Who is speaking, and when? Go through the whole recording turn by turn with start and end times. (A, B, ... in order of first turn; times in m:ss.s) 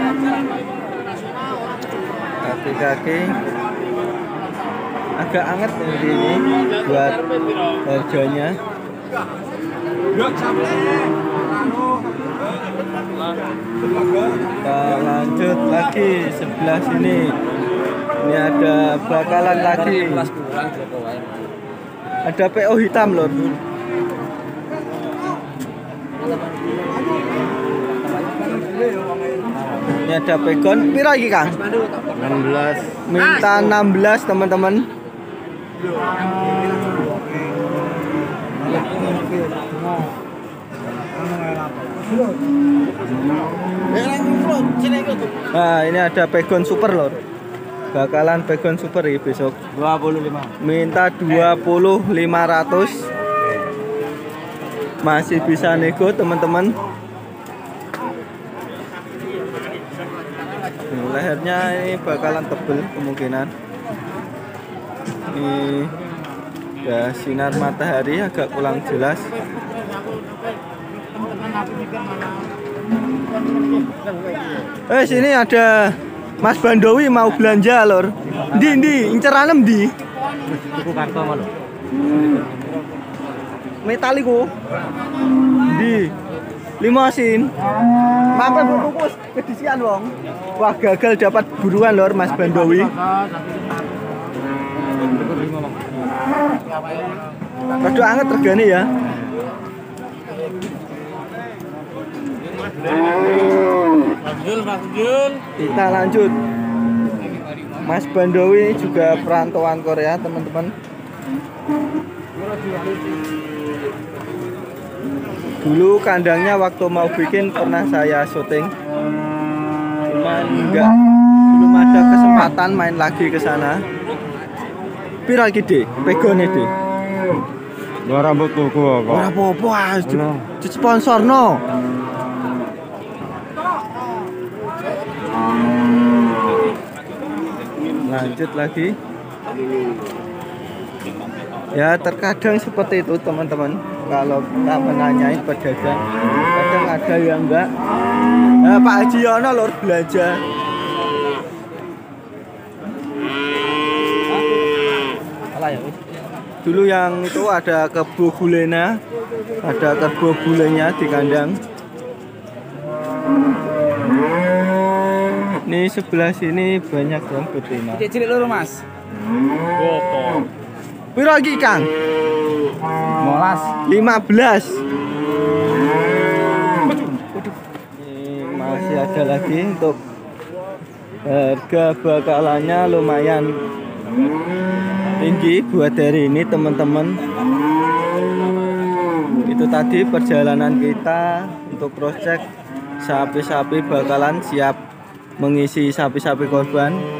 0:02.4-0:03.4 A
0:05.2-0:07.2 A
0:07.8-0:08.6 A
0:14.5-0:17.4 A
0:18.2-0:20.3 A
0:19.3-0:21.5 B
0:22.2-0:23.4 A
0:26.3-0:27.2 B
0:28.0-0:28.7 B
0:30.0-0:31.6 A
0:32.1-0:33.0 C
0:33.1-0:34.9 A
0:38.8-0:39.6 B
0:43.9-0:45.2 B
0:45.5-0:47.2 A
0:47.9-0:49.6 A
0:49.8-0:50.6 B
0:50.6-0:53.0 A
0:55.0-0:56.7 A
1:00.9-1:03.5 A
1:05.3-1:05.9 A
1:06.8-1:09.3 A
1:14.9-1:19.9 A
1:18.3-1:18.7 B
1:20.5-1:21.5 B
1:23.8-1:24.5 A
1:25.7-1:26.1 A
1:26.8-1:27.5 A
1:28.3-1:32.9 A
1:32.4-1:33.7 B
1:35.0-1:35.9 B
1:37.8-1:38.9 A
1:44.3-1:45.4 B
1:45.6-1:46.3 A
1:47.8-1:50.7 A
1:52.6-1:53.0 B
1:55.6-1:58.7 A
2:00.1-2:01.0 A
2:01.5-2:03.8 A
2:05.3-2:06.7 A
2:08.1-2:09.3 C
2:09.1-2:11.6 A
2:18.0-2:18.9 A
2:21.7-2:27.7 A
2:28.6-2:30.4 A
2:35.5-2:35.9 B
2:36.6-2:39.0 A
2:39.6-2:41.6 A
2:45.7-2:48.1 A
2:48.0-2:48.8 B
2:49.8-2:50.4 B
2:51.2-2:51.9 A
2:53.2-2:53.7 B
2:53.9-2:54.8 A
2:58.0-3:00.0 A
3:01.3-3:03.5 A
3:05.2-3:07.2 A
3:09.5-3:12.4 A
3:13.0-3:14.8 A
3:15.4-3:17.0 A